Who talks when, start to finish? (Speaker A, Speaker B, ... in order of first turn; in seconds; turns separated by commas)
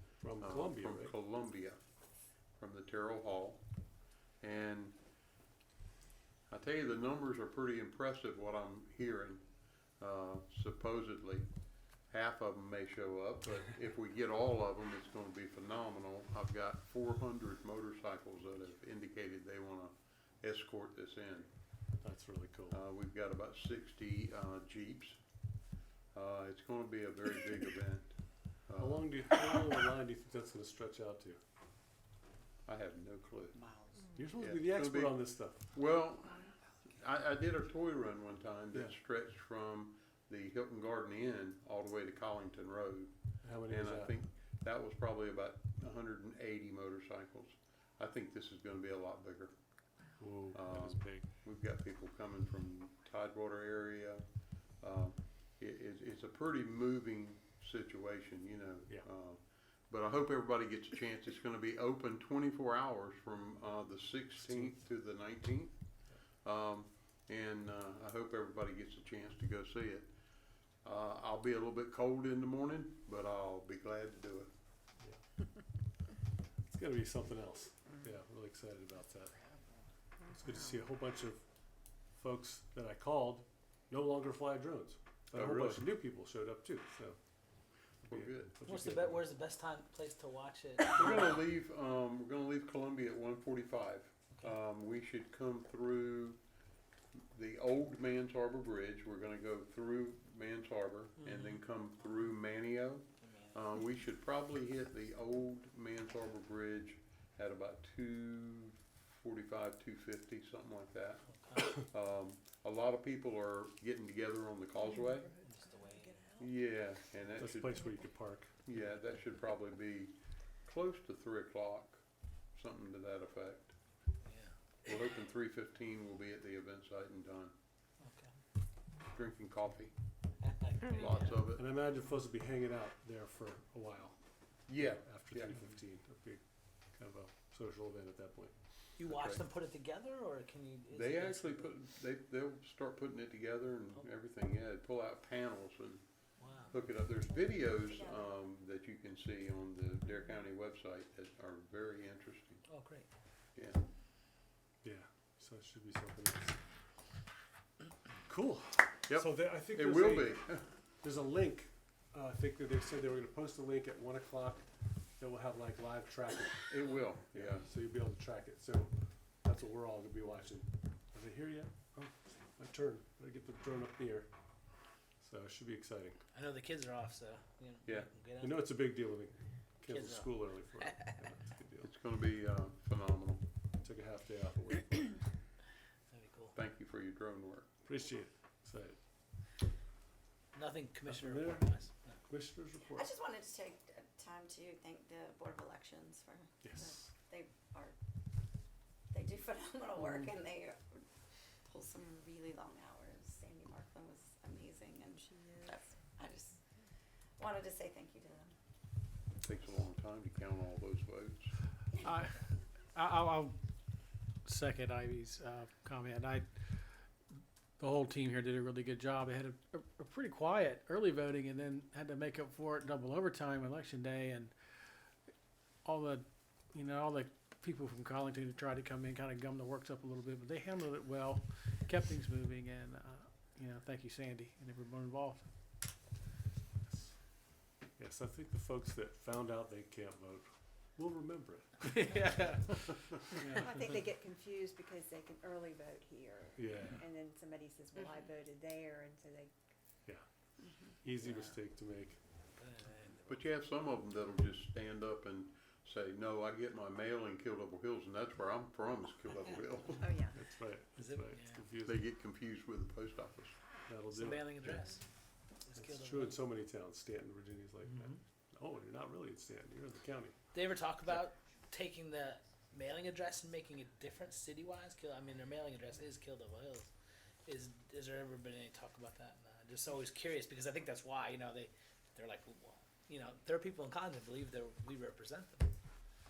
Speaker A: 0.2-1.1, Speaker B: 0.4-1.8, Speaker B: 2.6-3.6, Speaker B: 4.4-5.0, Speaker B: 6.5-9.4, Speaker B: 10.0-11.5, Speaker B: 12.1-21.5, Speaker A: 22.0-22.8, Speaker B: 22.7-25.2, Speaker B: 26.1-29.1, Speaker A: 28.8-31.4, Speaker B: 32.7-33.6, Speaker A: 34.1-35.7, Speaker B: 34.4-43.1, Speaker A: 43.4-44.2, Speaker B: 43.7-49.5, Speaker A: 50.2-51.3, Speaker B: 50.5-54.2, Speaker B: 54.8-65.8, Speaker A: 64.4-64.9, Speaker B: 66.4-70.1, Speaker B: 70.8-74.5, Speaker A: 76.6-79.4, Speaker C: 80.2-80.7, Speaker A: 80.3-81.5, Speaker A: 82.1-87.2, Speaker B: 85.3-85.8, Speaker A: 88.0-89.3, Speaker B: 88.0-88.5, Speaker D: 88.7-91.4, Speaker B: 90.9-96.4, Speaker B: 97.2-115.3, Speaker D: 101.2-101.6, Speaker D: 103.2-103.6, Speaker D: 111.3-111.8, Speaker D: 115.4-116.3, Speaker B: 116.4-117.9, Speaker A: 117.4-118.6, Speaker B: 118.7-122.0, Speaker B: 122.5-123.8, Speaker D: 124.3-124.5, Speaker B: 124.8-127.5, Speaker D: 128.0-128.3, Speaker B: 129.1-129.9, Speaker D: 130.4-131.4, Speaker B: 130.9-131.7, Speaker A: 131.6-138.5, Speaker B: 134.7-135.6, Speaker D: 139.0-141.7, Speaker B: 139.1-139.4, Speaker B: 140.9-146.1, Speaker D: 146.4-146.7, Speaker B: 146.7-152.6, Speaker E: 147.3-148.3, Speaker D: 152.7-153.1, Speaker B: 153.6-153.8, Speaker A: 154.8-156.6, Speaker A: 158.3-166.7, Speaker B: 159.1-160.7, Speaker B: 166.7-167.7, Speaker A: 167.3-174.3, Speaker A: 175.2-176.2, Speaker D: 176.3-178.7, Speaker B: 177.8-178.1, Speaker A: 178.4-181.9, Speaker D: 179.9-180.3, Speaker B: 181.8-183.4, Speaker A: 183.8-185.3, Speaker D: 186.1-186.5, Speaker B: 186.6-187.7, Speaker A: 187.8-189.0, Speaker D: 190.5-192.2, Speaker A: 191.1-193.1, Speaker E: 192.9-197.9, Speaker A: 196.6-197.1, Speaker E: 199.1-201.0, Speaker E: 201.7-206.6, Speaker C: 205.2-205.8, Speaker E: 207.4-208.5, Speaker B: 209.4-211.5, Speaker F: 212.0-213.6, Speaker F: 214.4-216.9, Speaker F: 217.8-224.6, Speaker F: 225.8-235.5, Speaker A: 236.9-237.2, Speaker A: 237.9-242.8, Speaker F: 241.9-242.8, Speaker A: 243.3-243.8, Speaker C: 243.6-249.5, Speaker A: 246.6-247.0, Speaker A: 250.1-252.2, Speaker D: 251.2-251.6, Speaker D: 252.6-253.5, Speaker B: 253.3-260.3, Speaker C: 260.0-260.3, Speaker A: 260.3-262.1, Speaker D: 261.0-261.7, Speaker B: 261.9-263.6, Speaker A: 263.9-265.2, Speaker D: 264.1-265.1, Speaker D: 265.6-266.4, Speaker A: 265.7-270.4, Speaker D: 267.9-268.2, Speaker D: 270.5-276.9, Speaker D: 277.5-285.7